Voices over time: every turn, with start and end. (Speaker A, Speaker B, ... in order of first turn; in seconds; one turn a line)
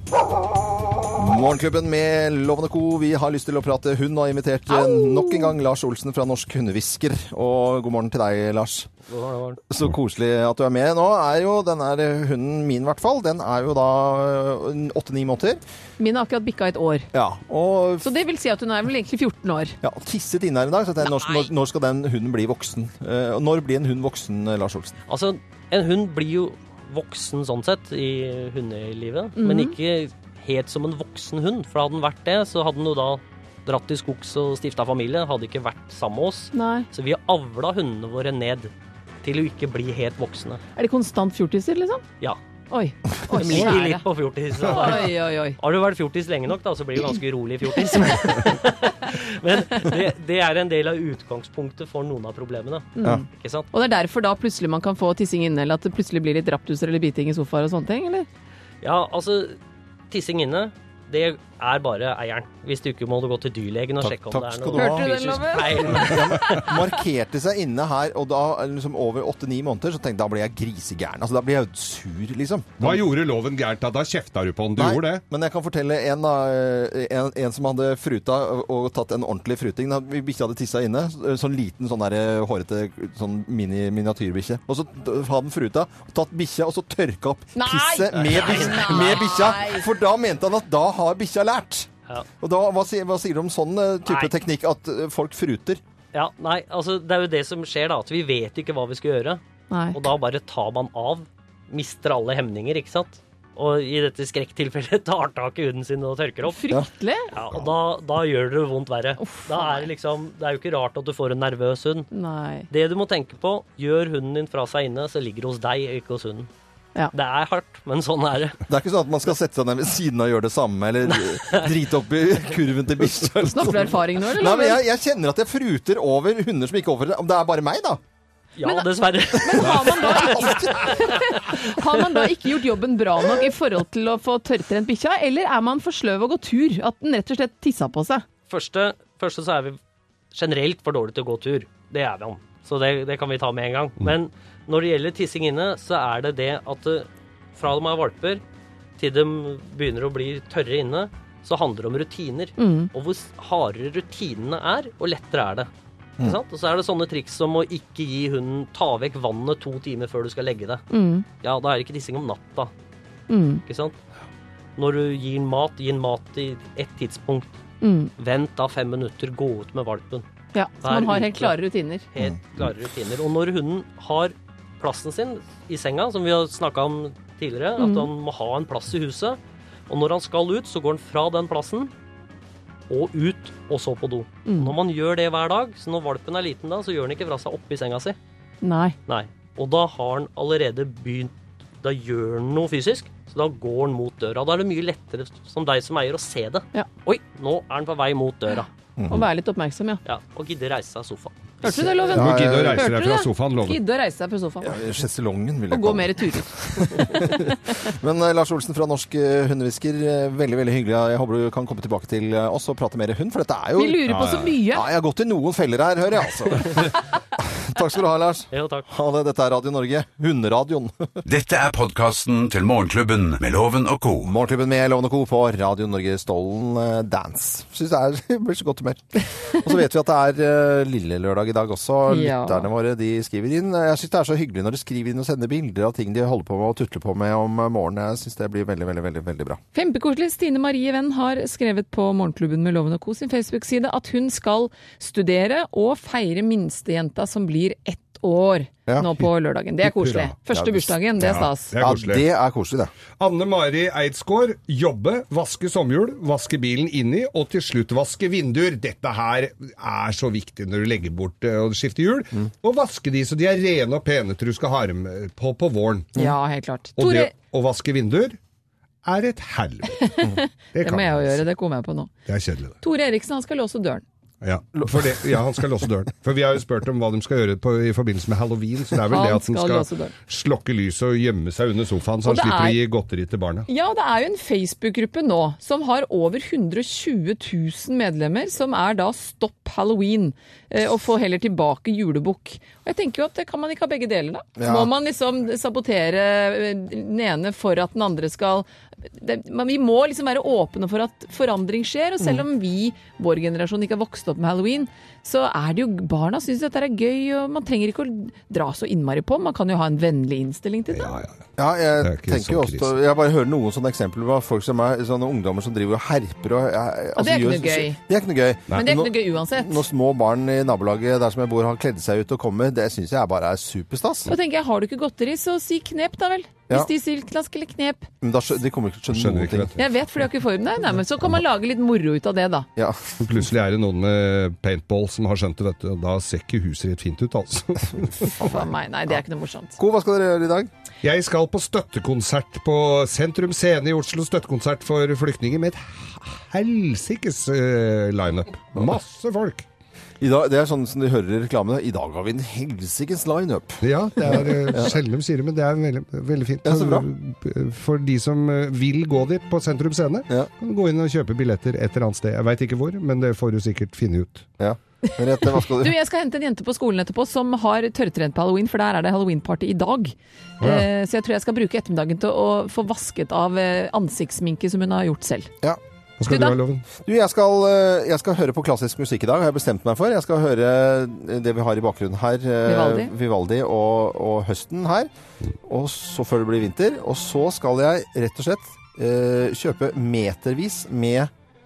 Speaker A: 1.1-8.9
Speaker B: 4.7-5.5
Speaker C: 9.1-9.6
Speaker A: 9.7-15.6
Speaker B: 16.0-17.1
Speaker A: 17.1-18.1
Speaker B: 18.0-19.8
Speaker A: 19.8-25.0
Speaker B: 21.1-21.4
Speaker C: 25.1-38.7
Speaker B: 29.4-29.8
Speaker B: 36.5-36.9
Speaker C: 39.2-40.6
Speaker B: 40.8-42.0
Speaker B: 42.7-44.1
Speaker C: 43.4-53.7
Speaker D: 43.4-43.8
Speaker D: 44.6-45.0
Speaker B: 44.7-45.6
Speaker A: 47.9-48.5
Speaker B: 53.0-58.3
Speaker C: 58.8-59.6
Speaker C: 60.1-66.8
Speaker A: 64.0-73.0
Speaker B: 64.7-66.7
Speaker D: 72.8-75.2
Speaker A: 74.8-91.9
Speaker B: 87.5-89.9
Speaker C: 88.2-89.4
Speaker A: 92.4-95.8
Speaker C: 94.0-94.3
Speaker C: 96.1-112.1
Speaker B: 99.7-100.0
Speaker B: 106.4-107.3
Speaker B: 109.2-109.9
Speaker B: 112.1-112.7
Speaker C: 112.7-116.5
Speaker C: 117.1-118.6
Speaker A: 118.7-128.0
Speaker C: 121.0-121.8
Speaker B: 123.5-124.8
Speaker C: 128.6-132.3
Speaker B: 128.6-138.2
Speaker A: 129.9-130.9
Speaker C: 138.5-139.8
Speaker C: 140.3-148.4
Speaker C: 149.0-155.7
Speaker B: 152.6-152.9
Speaker C: 156.2-162.7
Speaker B: 160.9-161.2
Speaker B: 163.3-163.6
Speaker C: 163.6-164.0
Speaker C: 164.8-167.6
Speaker B: 167.8-168.1
Speaker C: 168.1-170.3
Speaker B: 170.5-172.1
Speaker C: 170.8-181.9
Speaker B: 177.8-178.1
Speaker C: 182.9-188.2
Speaker B: 184.5-184.7
Speaker B: 188.6-189.0
Speaker C: 189.1-198.7
Speaker A: 199.0-199.3
Speaker B: 199.1-200.0
Speaker C: 200.0-201.7
Speaker B: 201.6-204.8
Speaker A: 201.7-202.9
Speaker D: 202.0-203.8
Speaker A: 204.6-221.2
Speaker B: 205.7-207.8
Speaker B: 213.8-214.9
Speaker D: 214.2-214.4
Speaker C: 218.5-218.9
Speaker E: 221.2-224.3
Speaker A: 224.2-239.6
Speaker B: 232.1-232.7
Speaker B: 239.7-251.7
Speaker D: 249.8-250.3
Speaker A: 250.5-252.9
Speaker D: 251.2-252.2
Speaker D: 253.2-266.1
Speaker B: 266.2-267.3
Speaker D: 267.0-268.4
Speaker D: 269.1-271.4
Speaker B: 269.9-272.1
Speaker D: 272.3-272.8
Speaker B: 272.8-274.0
Speaker D: 274.4-283.7
Speaker A: 274.8-275.6
Speaker B: 279.1-280.2
Speaker B: 282.2-282.8
Speaker B: 283.7-311.2
Speaker A: 294.6-294.9
Speaker A: 302.2-302.5
Speaker D: 310.9-311.4
Speaker A: 311.6-324.4
Speaker D: 312.0-312.9
Speaker B: 317.2-318.0
Speaker B: 318.7-319.8
Speaker B: 324.3-328.1
Speaker A: 328.2-329.8
Speaker D: 329.1-329.8
Speaker B: 329.8-332.7
Speaker A: 332.8-333.4
Speaker D: 333.2-338.4
Speaker A: 338.4-339.2
Speaker B: 338.4-339.8
Speaker A: 339.8-340.7
Speaker D: 341.0-349.6
Speaker A: 350.2-355.0
Speaker D: 353.8-364.5
Speaker A: 356.6-357.1
Speaker A: 364.6-365.9
Speaker B: 365.4-375.5
Speaker D: 370.6-370.9
Speaker D: 376.2-376.9
Speaker B: 376.3-376.6
Speaker A: 377.0-385.1
Speaker B: 382.6-383.1
Speaker A: 385.6-391.3